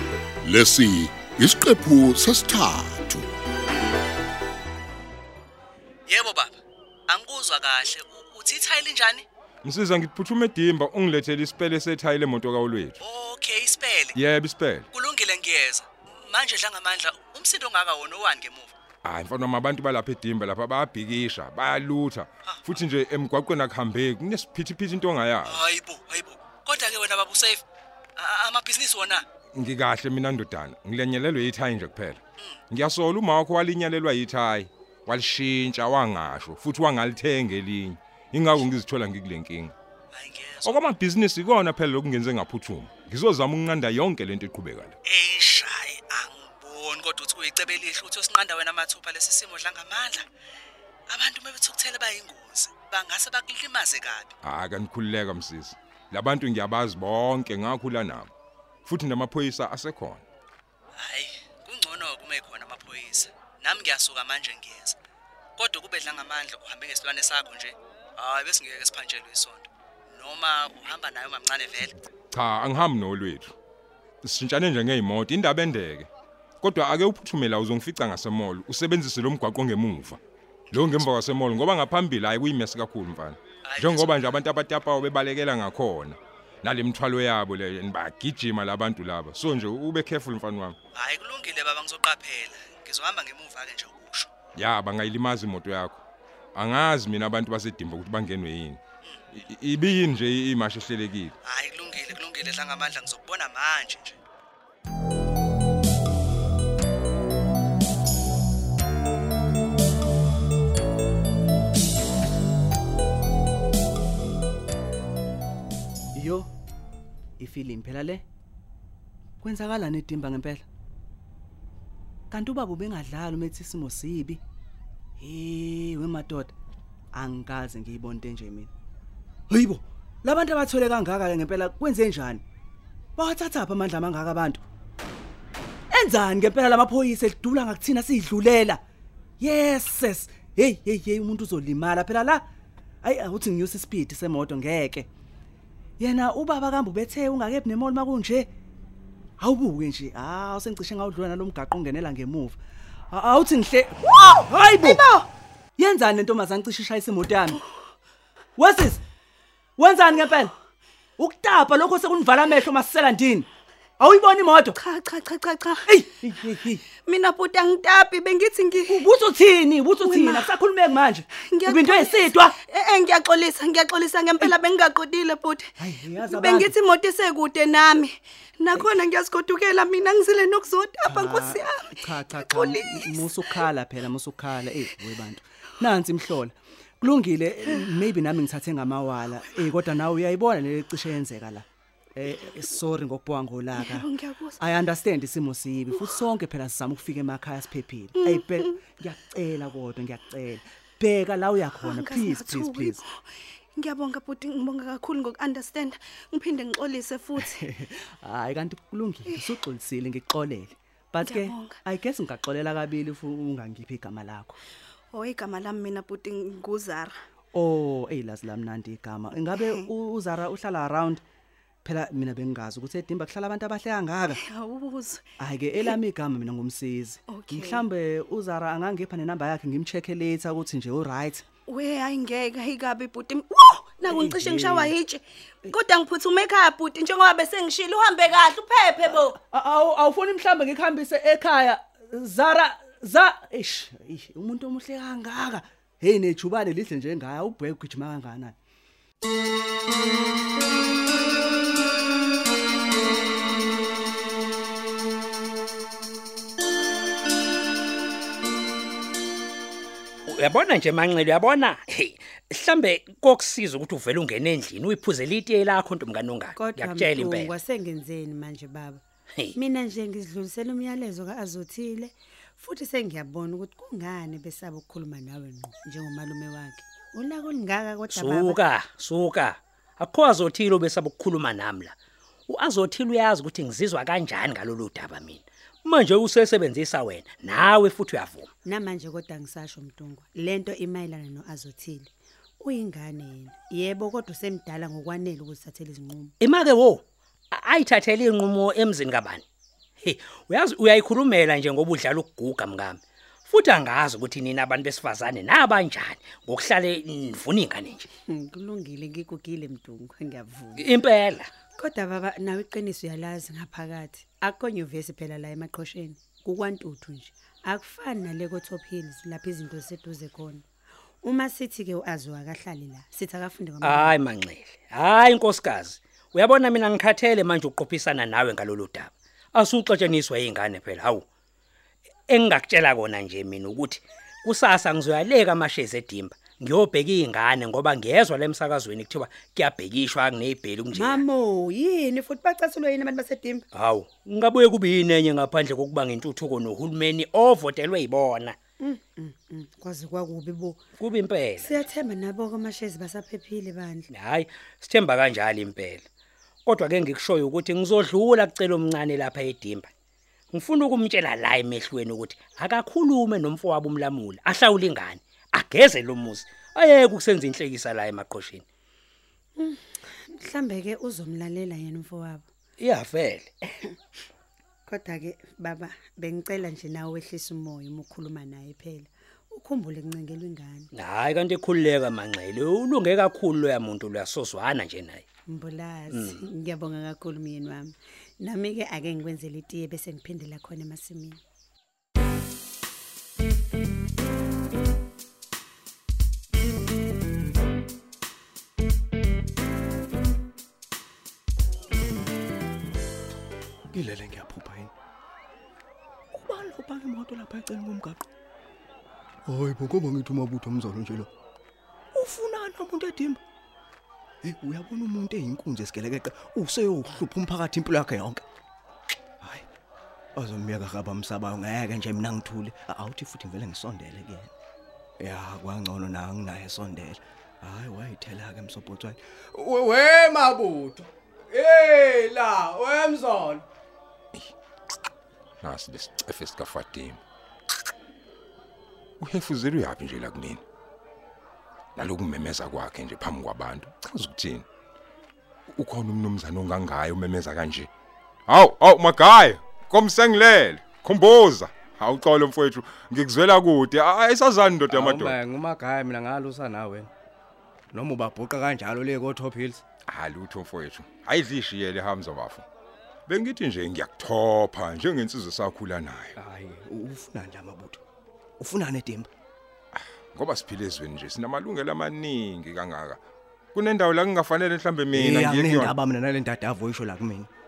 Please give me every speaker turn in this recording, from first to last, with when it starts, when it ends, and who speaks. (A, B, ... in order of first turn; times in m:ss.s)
0:00.4-0:03.3 A
0:06.1-0:06.5 B
0:07.1-0:09.2 B
0:09.6-0:13.0 C
0:13.0-0:14.1 B
0:14.1-0:14.9 C
0:14.9-0:18.7 B
0:19.0-0:25.6 C
0:25.5-0:27.6 B
0:28.2-0:29.2 B
0:29.5-0:32.2 C
0:32.7-0:39.7 C
0:40.1-0:40.7 B
0:40.6-0:44.9 C
0:45.0-0:50.3 B
0:51.1-0:54.3 B
0:54.4-0:58.3 C
0:58.8-1:00.2 C
1:01.0-1:05.0 B
1:05.6-1:11.9 B
1:12.3-1:13.5 C
1:14.2-1:16.1 C
1:16.6-1:20.2 C
1:20.7-1:30.8 C
1:31.0-1:34.3 B
1:34.5-1:36.0 C
1:36.5-1:38.8 C
1:39.3-1:41.3 C
1:41.4-1:44.2 B
1:56.1-1:56.5 D
1:57.4-1:58.2 D
1:59.4-2:00.6 D
2:02.3-2:04.4 D
2:05.2-2:06.5 D
2:07.1-2:08.7 D
2:09.5-2:12.4 D
2:13.2-2:14.6 D
2:15.9-2:18.8 D
2:19.4-2:22.4 D
2:23.0-2:25.1 D
2:26.0-2:28.5 D
2:29.4-2:32.6 D
2:33.1-2:35.0 D
2:34.8-2:35.3 E
2:35.8-2:37.6 D
2:38.6-2:39.0 D
2:39.8-2:40.5 D
2:41.2-2:43.5 D
2:44.0-2:44.8 D
2:44.7-2:45.9 E
2:45.9-2:46.8 D
2:46.9-2:49.0 E
2:48.8-2:52.5 D
2:50.0-2:50.6 E
2:51.3-3:03.6 E
2:55.8-2:56.7 D
3:01.0-3:23.0 D
3:12.3-3:12.6 E
3:13.7-3:14.6 E
3:15.9-3:16.2 E
3:18.1-3:18.8 E
3:21.8-3:27.6 E
3:27.4-3:34.6 D
3:29.3-3:29.6 E
3:31.2-3:31.8 E
3:35.1-3:37.2 E
3:37.5-3:41.2 D
3:39.6-3:39.8 E
3:41.8-3:44.4 D
3:44.3-3:45.2 E
3:45.4-3:51.4 D
3:47.3-3:47.8 E
3:51.7-3:59.4 E
3:54.1-3:54.9 D
3:59.0-4:08.5 D
4:20.3-4:27.5 F
4:26.5-4:29.0 G
4:29.5-4:38.6 G
4:38.1-4:41.9 F
4:42.5-4:48.5 F
4:48.6-4:56.3 G
4:56.4-4:59.4 F
5:00.0-5:08.0 F
5:08.3-5:10.9 G
5:10.8-5:11.5 F
5:11.8-5:20.6 G
5:21.2-5:24.1 G
5:23.8-5:31.2 F
5:32.3-5:41.2 F
5:40.9-5:43.6 G
5:43.7-5:48.6 F
5:48.8-5:50.8 G
5:51.0-5:51.8 F
5:51.6-5:54.1 G
5:54.1-5:56.0 F
5:56.6-5:59.9 F
6:00.5-6:08.6 F
6:09.6-6:12.5 G
6:12.8-6:13.6 F
6:14.9-6:20.9 G
6:20.9-6:25.2 F
6:25.5-6:31.4 G
6:26.1-6:26.4 F
6:43.9-6:44.9 H
6:46.3-6:48.2 H
6:49.4-6:51.3 H
6:52.1-6:53.4 H
6:54.4-6:58.4 H
6:59.4-6:59.6 H
7:00.4-7:04.5 H
7:05.2-7:13.6 H
7:15.6-7:17.2 C
7:19.2-7:20.6 C
7:22.0-7:24.6 C
7:25.7-7:27.9 C
7:28.5-7:35.4 C
7:34.9-7:37.1 H
7:37.9-7:39.8 H
7:40.1-7:42.6 C
7:43.3-7:46.3 C
7:46.4-7:48.0 H
7:48.6-7:49.3 H
7:49.9-7:53.2 C
7:53.7-7:55.9 C
7:55.1-7:57.5 H